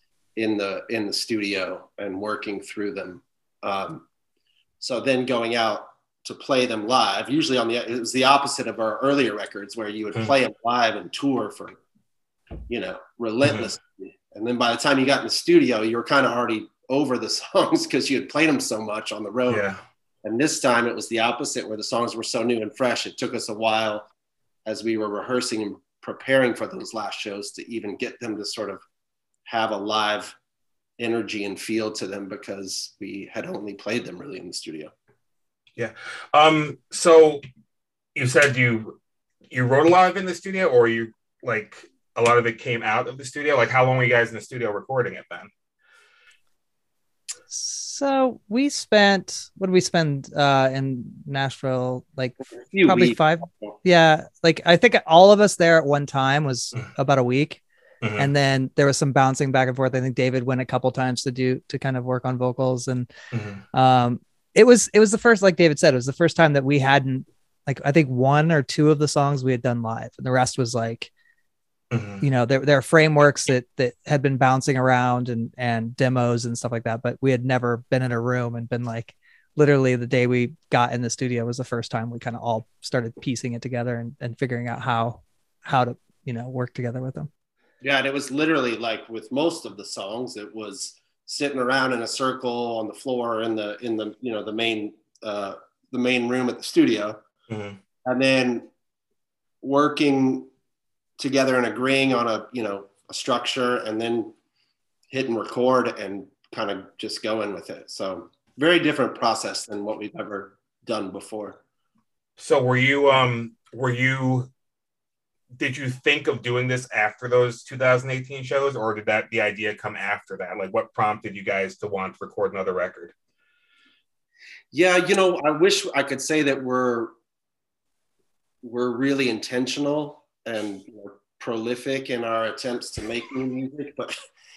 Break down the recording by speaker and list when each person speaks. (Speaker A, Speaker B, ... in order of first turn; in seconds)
Speaker A: 0.4-4.0, 4.8-11.8, 12.7-19.6, 20.2-24.1, 24.7-28.8, 29.5-30.4, 31.0-34.9, 52.7-53.8, 87.8-97.2, 98.0-98.7, 99.6-100.5, 101.2-104.3, 105.1-111.6, 124.7-127.1, 128.6-134.1
Speaker B: 19.5-19.8, 35.8-37.4, 38.1-39.0, 39.5-45.5, 58.0-58.3, 63.3-63.6, 71.9-72.2, 97.5-97.8, 112.4-114.5, 115.5-123.1
Speaker C: 47.5-57.6, 58.2-63.1, 63.7-71.1, 72.2-87.3